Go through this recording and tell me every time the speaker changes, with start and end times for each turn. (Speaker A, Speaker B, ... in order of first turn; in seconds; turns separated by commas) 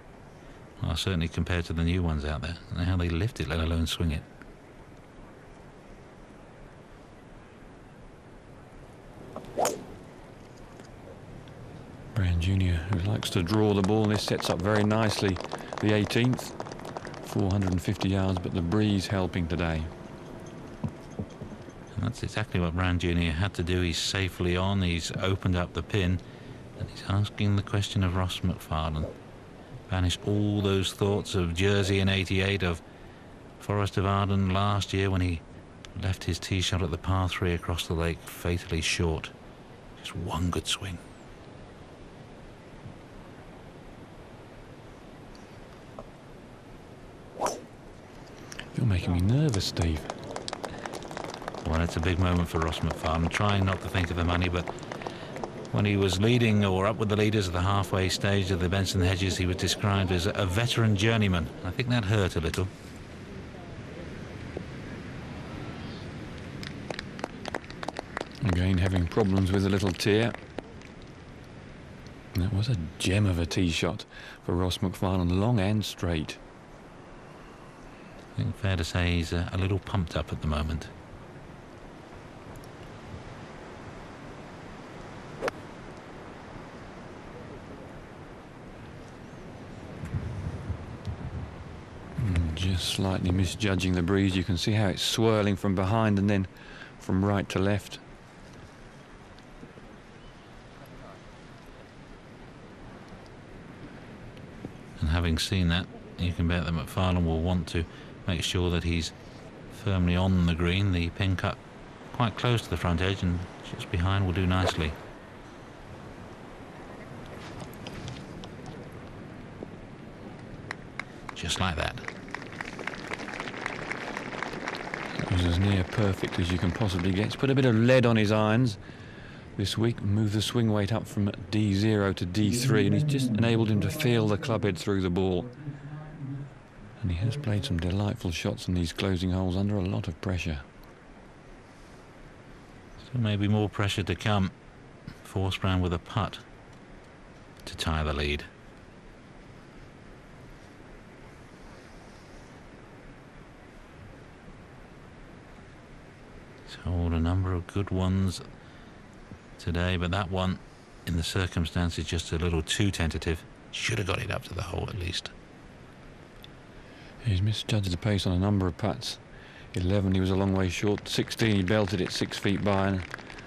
Speaker A: 0.8-4.2, Speaker B: 12.1-16.6, Speaker B: 17.2-19.9, Speaker A: 21.9-26.2, Speaker A: 26.8-29.1, Speaker A: 29.9-32.8, Speaker A: 33.6-35.4, Speaker A: 35.9-39.3, Speaker A: 40.0-41.0, Speaker B: 48.7-50.1, Speaker A: 51.6-54.7, Speaker A: 55.7-62.7, Speaker B: 68.4-70.3, Speaker B: 72.3-76.4, Speaker A: 78.3-80.9, Speaker B: 92.2-98.0, Speaker A: 105.0-109.1, Speaker A: 109.7-111.6, Speaker A: 112.1-115.0, Speaker A: 121.3-122.0, Speaker B: 125.2-128.8, Speaker B: 129.6-135.7, Speaker B: 137.0-140.6, Speaker A: 143.1-144.5, Speaker A: 145.2-146.4, Speaker A: 147.6-148.5, Speaker A: 156.7-158.4, Speaker A: 159.6-165.3, Speaker B: 167.2-169.2, Speaker B: 169.7-173.1